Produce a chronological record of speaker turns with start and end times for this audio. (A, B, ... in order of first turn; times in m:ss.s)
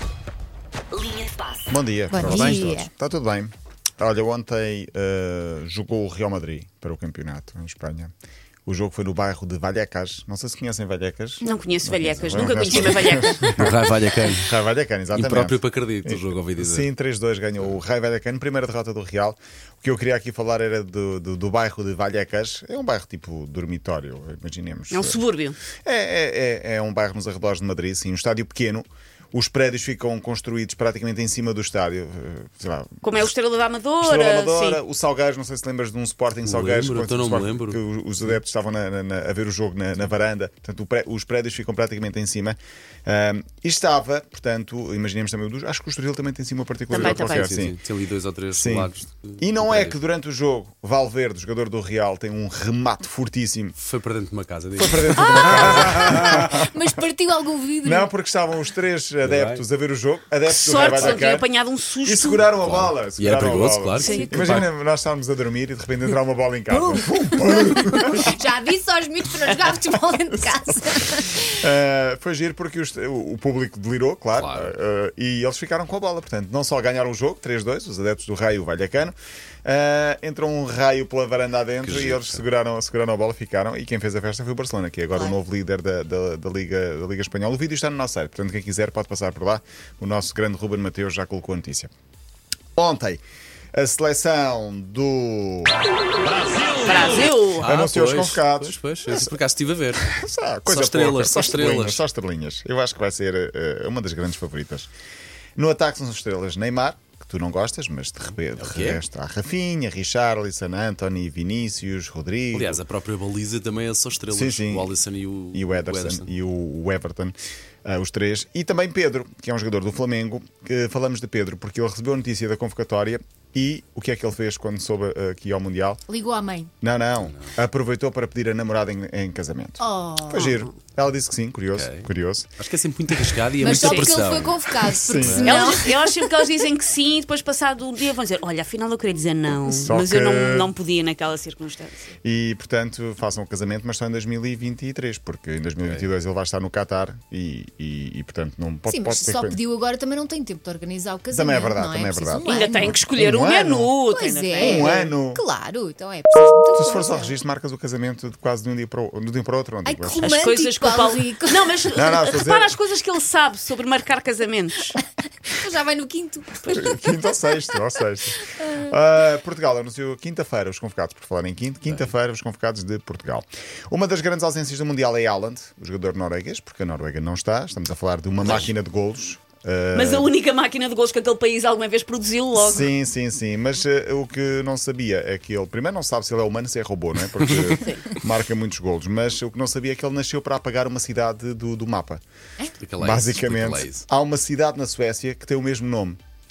0:01.6-0:08.1 A
0:02.1-0:02.9 B
0:02.2-0:02.7 C
0:08.6-0:25.2 A
0:11.4-0:13.5 D
0:13.4-0:14.5 C
0:15.1-0:16.9 C
0:24.9-0:25.6 D
0:25.8-0:33.3 A
0:33.0-0:34.8 D
0:34.0-0:47.8 A
0:36.4-0:38.4 C
0:46.9-0:47.5 D
0:47.0-0:49.9 C
0:48.5-0:53.8 A
0:53.8-0:56.3 C
0:54.8-0:56.6 A
0:55.2-0:55.7 D
0:55.5-0:58.1 B
0:57.8-1:01.5 A
0:59.2-0:59.6 C
1:00.5-1:02.5 D
1:02.0-1:08.3 A
1:02.6-1:04.7 C
1:04.0-1:04.3 D
1:04.0-1:04.6 B
1:06.7-1:11.5 B
1:11.4-1:31.9 A
1:14.3-1:14.7 C
1:21.8-1:22.4 C
1:32.8-1:33.2 A
1:33.7-1:35.7 A
1:36.8-1:37.7 D
1:37.6-1:40.1 C
1:37.6-1:39.4 A
1:40.0-1:44.9 A
1:40.7-1:42.0 C
1:45.6-1:52.8 A
1:48.6-1:49.0 C
1:52.5-1:56.3 C
1:54.3-1:54.9 A
1:55.5-2:06.0 A
2:06.1-2:06.7 B
2:06.8-2:12.5 A
2:09.8-2:10.6 B
2:11.7-2:15.5 C
2:13.6-2:16.3 B
2:13.6-2:14.3 D
2:14.9-2:15.8 A
2:15.4-2:22.1 D
2:19.7-2:20.7 A
2:22.2-2:29.6 A
2:25.8-2:26.1 C
2:28.9-2:33.0 B
2:31.3-2:33.9 A
2:32.4-2:35.1 D
2:34.1-2:37.4 B
2:34.6-2:35.4 A
2:36.7-2:40.5 A
2:39.8-2:42.1 B
2:40.2-2:45.0 D
2:41.9-2:42.7 A
2:44.9-2:47.8 B
2:46.7-3:00.3 A
2:48.4-2:48.9 B
2:58.4-2:58.7 C
2:59.9-3:02.9 D
3:02.5-3:12.2 A
3:07.4-3:07.8 C
3:07.8-3:08.0 D
3:12.7-3:14.0 C
3:13.0-3:16.2 A